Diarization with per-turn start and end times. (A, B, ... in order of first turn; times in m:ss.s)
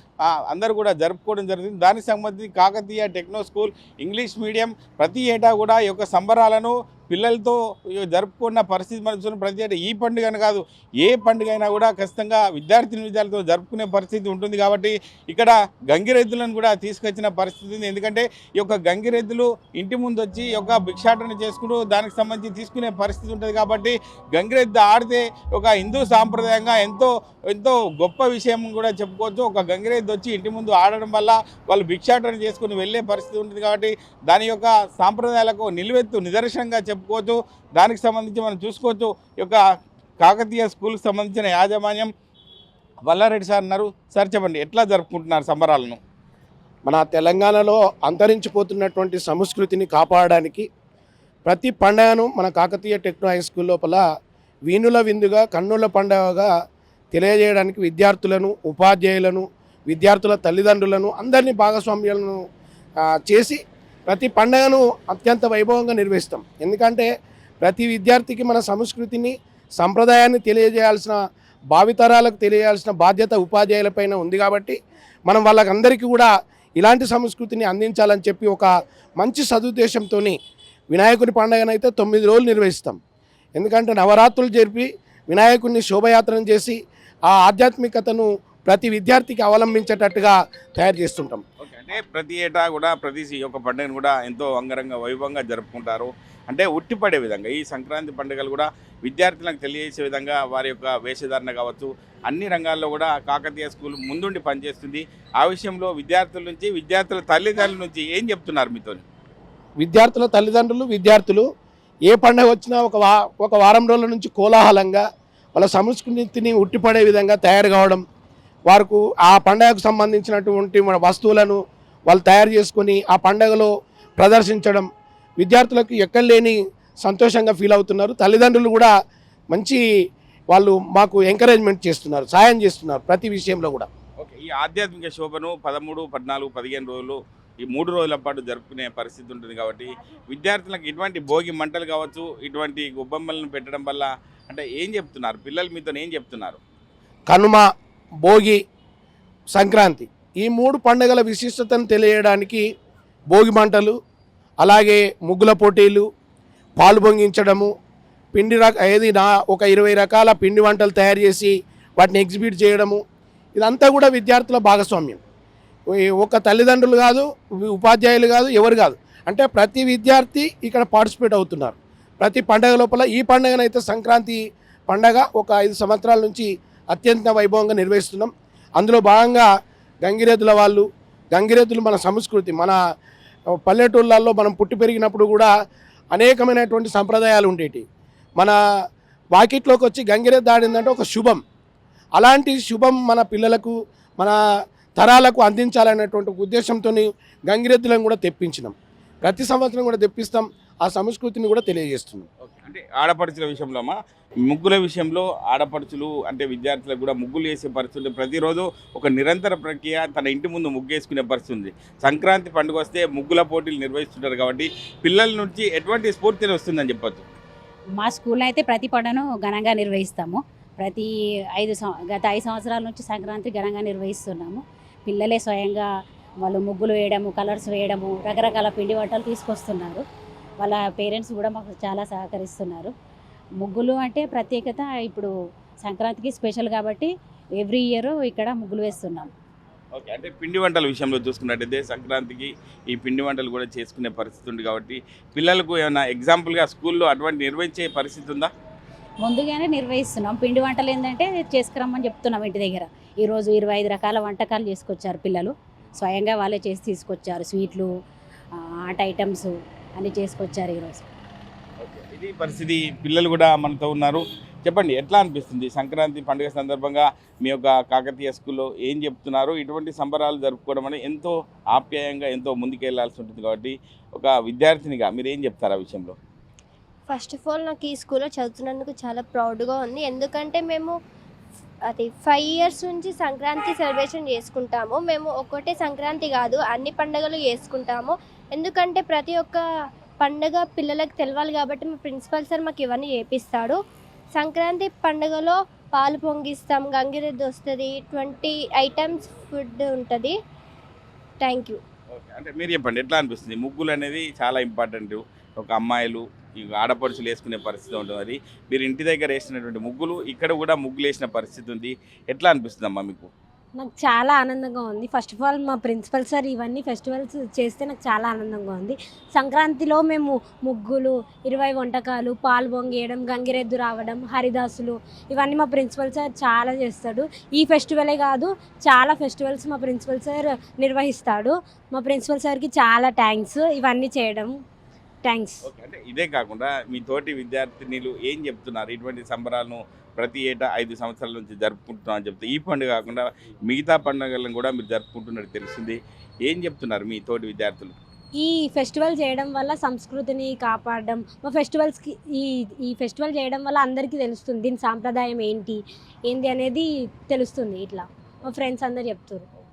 0:00.5-0:39.6 A
0:40.2-0:42.1 A
0:43.0-0:46.0 A
0:46.8-0:50.6 B
0:51.4-0:54.0 B
0:54.7-0:56.5 B
0:57.1-1:02.4 B
1:03.2-1:07.1 B
1:07.6-1:11.2 B
1:11.7-1:14.8 B
1:15.3-1:20.4 B
1:20.9-1:23.0 B
1:23.6-1:31.4 B
1:31.6-1:49.0 A
1:49.8-1:51.4 B
1:52.1-1:55.0 B
1:55.5-1:58.0 B
1:58.7-2:04.9 B
2:05.4-2:08.9 B
2:09.5-2:09.8 B
2:10.5-2:13.9 B
2:14.2-2:26.6 A
2:27.3-2:27.7 B
2:28.2-2:28.6 B
2:29.5-2:32.6 B
2:33.3-2:33.9 B
2:34.6-2:36.0 B
2:36.8-2:37.7 B
2:38.3-2:43.0 B
2:43.6-2:45.2 B
2:45.9-2:59.5 B
3:00.0-3:02.8 B
3:03.7-3:05.5 B
3:06.1-3:07.8 B
3:09.3-3:11.4 B
3:12.2-3:14.4 B
3:15.0-3:22.3 B
3:22.4-3:24.0 A
3:24.5-3:37.3 A
3:38.0-3:45.9 C
3:46.4-3:50.0 C
3:50.6-3:52.9 C
3:53.6-3:55.3 C
3:55.8-3:59.3 C
3:59.9-4:08.5 A
4:09.2-4:17.9 C
4:18.9-4:21.1 C
4:21.8-4:36.2 A
4:37.1-4:40.9 D
4:41.9-4:49.6 D
4:50.2-4:53.8 D
4:54.3-5:00.4 D
5:01.4-5:01.8 D
5:02.1-5:13.3 A
5:13.8-5:34.5 E
5:35.2-5:35.6 E
5:35.6-5:48.0 A
5:48.4-5:59.4 E